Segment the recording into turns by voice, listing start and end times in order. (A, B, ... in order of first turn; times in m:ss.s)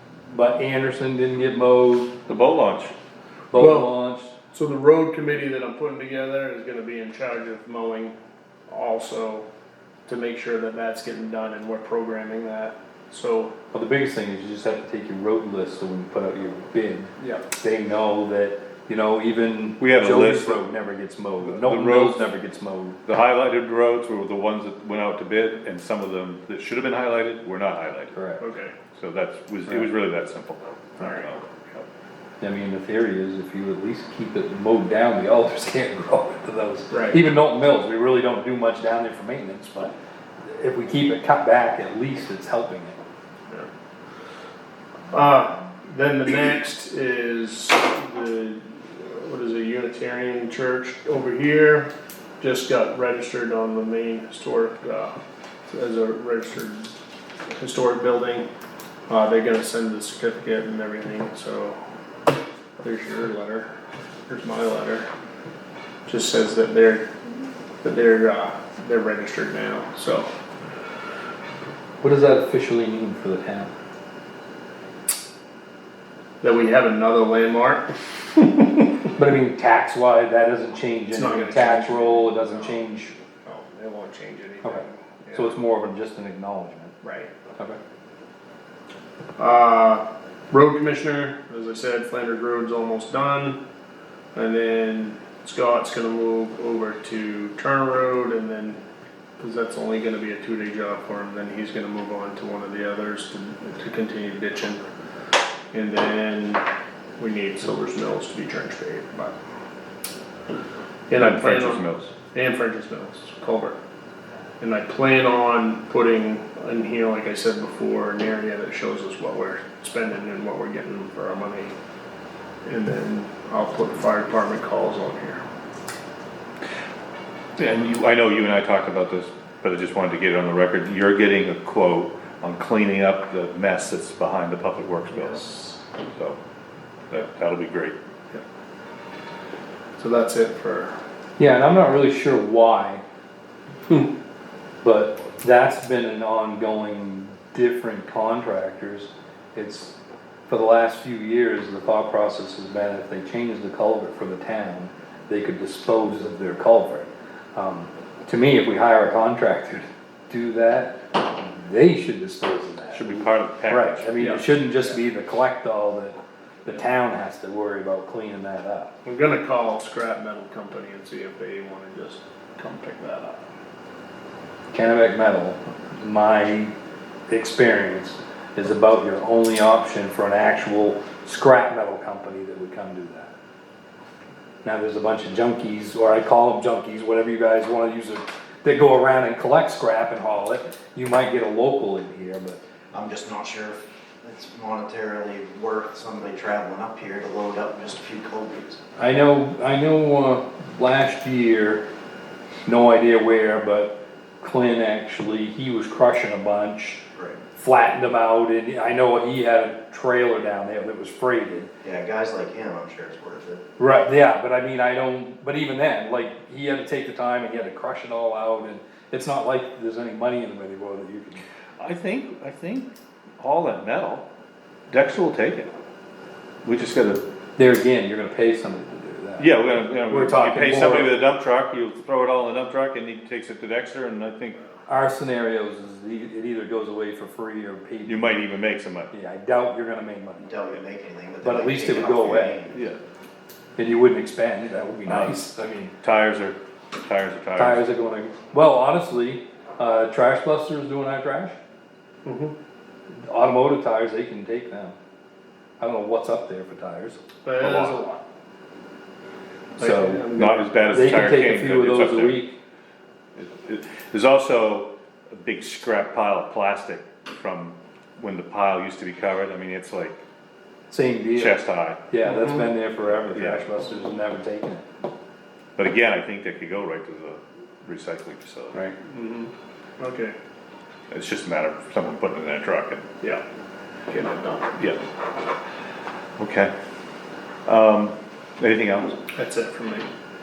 0:00.3-0:02.2 A
0:02.3-0:02.9 B
0:03.5-0:04.3 A
0:03.5-0:03.9 C
0:04.5-0:08.1 C
0:08.7-0:09.5 C
0:10.0-0:13.5 C
0:13.7-0:23.0 A
0:19.8-0:20.6 B
0:21.4-0:22.3 B
0:23.0-0:28.1 B
0:28.1-0:28.4 A
0:28.4-0:28.8 C
0:28.9-0:31.4 B
0:31.0-0:31.9 C
0:32.4-0:39.9 A
0:36.9-0:37.2 C
0:40.4-0:43.0 A
0:45.1-0:51.9 C
0:52.4-0:55.2 C
0:55.7-0:56.9 C
0:57.5-0:58.5 C
0:59.1-1:01.8 C
1:02.8-1:03.7 C
1:04.3-1:05.1 C
1:06.0-1:07.1 C
1:07.8-1:10.3 C
1:12.0-1:13.7 A
1:16.4-1:18.9 C
1:19.2-1:23.1 A
1:21.1-1:22.8 C
1:23.4-1:25.5 C
1:25.3-1:26.9 A
1:27.0-1:27.3 C
1:29.4-1:33.6 C
1:34.3-1:38.8 C
1:39.4-1:44.8 C
1:45.7-1:46.6 C
1:47.2-1:49.3 C
1:51.1-1:53.8 C
1:51.1-1:52.1 B
1:54.6-2:01.7 C
2:02.6-2:05.4 C
2:07.6-2:15.5 B
2:15.2-2:15.8 C
2:16.1-2:16.4 B
2:17.1-2:18.0 B
2:20.0-2:21.0 C
2:21.4-2:23.0 A
2:24.8-2:30.0 A
2:30.5-2:48.9 A
2:42.9-2:44.3 B
2:44.2-2:44.4 C
2:49.0-2:53.4 C
2:54.7-2:56.7 A
2:57.3-3:03.3 A
3:04.6-3:12.6 A
3:12.9-3:18.8 D
3:19.0-3:21.8 A
3:22.6-3:27.0 A
3:27.1-3:27.4 D
3:27.5-3:31.7 A
3:31.8-3:33.6 D
3:33.8-3:41.4 A
3:41.8-3:42.9 B
3:43.4-3:44.2 B
3:44.9-3:45.7 B
3:46.6-3:47.2 B
3:47.6-3:49.5 A
3:49.4-3:54.6 B
3:50.0-3:51.2 A
3:54.9-3:58.4 A
3:58.0-3:59.1 B
3:59.1-4:00.5 A
4:00.4-4:02.8 D
4:01.4-4:02.6 A
4:02.7-4:03.0 B
4:03.8-4:05.9 A
4:05.0-4:05.4 B
4:06.0-4:07.9 B
4:07.6-4:11.6 A
4:12.2-4:12.5 C
4:13.2-4:15.0 A
4:15.8-4:18.2 A
4:17.4-4:18.0 C
4:17.6-4:18.0 B
4:19.8-4:20.9 C
4:19.8-4:20.3 A
4:20.3-4:22.4 B
4:20.8-4:22.6 A
4:23.4-4:30.2 B
4:30.9-4:34.8 A
4:31.3-4:32.1 B
4:32.2-4:32.7 C
4:33.3-4:33.6 B
4:35.8-4:38.9 B
4:39.0-4:40.4 C
4:41.1-4:43.0 B
4:44.1-4:44.7 C
4:46.4-4:46.7 B
4:47.6-4:49.2 B
4:49.3-4:50.1 C